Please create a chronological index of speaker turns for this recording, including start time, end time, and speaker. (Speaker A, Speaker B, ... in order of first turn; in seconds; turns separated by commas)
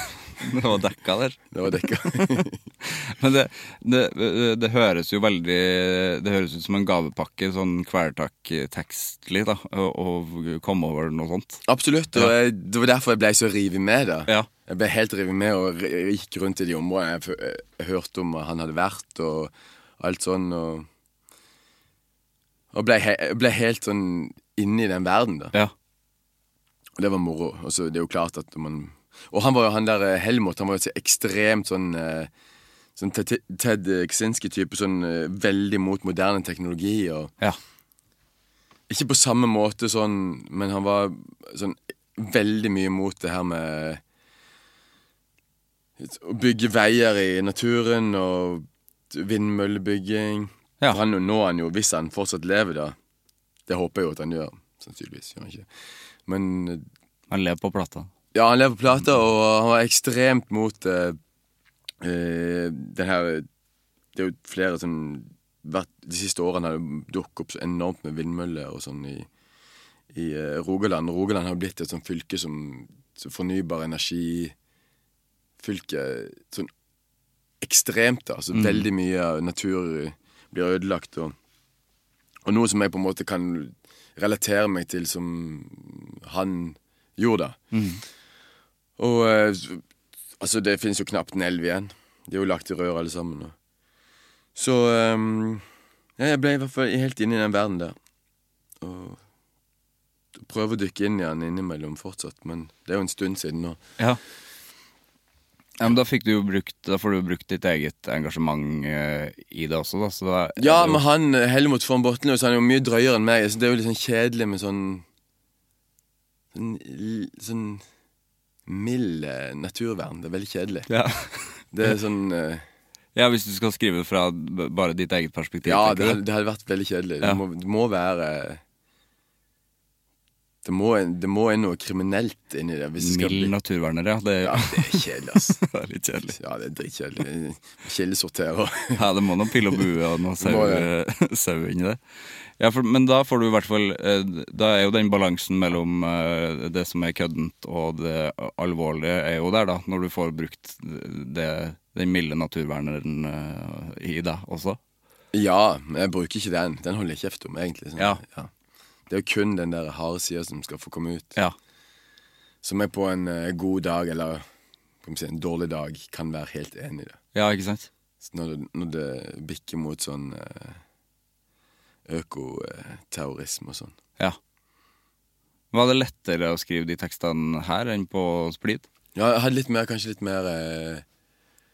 Speaker A: 0.4-11.6, Speaker B: 1.5-2.6, Speaker B: 11.7-20.9, Speaker B: 22.7-25.5, Speaker B: 27.0-32.3, Speaker B: 33.0-37.3, Speaker B: 38.9-44.0, Speaker B: 46.0-53.0, Speaker B: 53.7-55.7, Speaker B: 56.2-56.8, Speaker A: 57.3-58.1, Speaker B: 58.3-61.2, Speaker B: 62.0-63.5, Speaker B: 64.1-69.3, Speaker B: 70.1-74.5, Speaker B: 75.6-76.7, Speaker B: 77.6-81.3, Speaker A: 78.5-78.9, Speaker B: 82.5-87.6, Speaker A: 87.7-88.0, Speaker B: 89.0-89.8, Speaker B: 90.4-93.5, Speaker B: 94.5-95.6, Speaker B: 96.2-97.9, Speaker B: 98.8-99.2, Speaker B: 100.3-103.8, Speaker A: 105.8-111.0, Speaker B: 110.6-115.0, Speaker B: 116.5-117.8, Speaker B: 118.7-120.9, Speaker A: 120.9-121.5, Speaker B: 121.7-122.6, Speaker A: 123.1-126.2, Speaker B: 125.6-128.6, Speaker B: 130.6-133.5, Speaker A: 133.0-136.4, Speaker B: 134.4-135.6, Speaker B: 136.3-139.0, Speaker A: 138.9-142.0, Speaker B: 140.4-140.9, Speaker A: 142.6-154.8, Speaker B: 155.3-158.5, Speaker B: 159.1-161.3, Speaker B: 162.6-164.4, Speaker B: 165.0-167.2, Speaker A: 167.3-167.9, Speaker B: 168.2-170.8, Speaker B: 172.1-173.9, Speaker A: 175.7-178.9, Speaker B: 179.1-181.0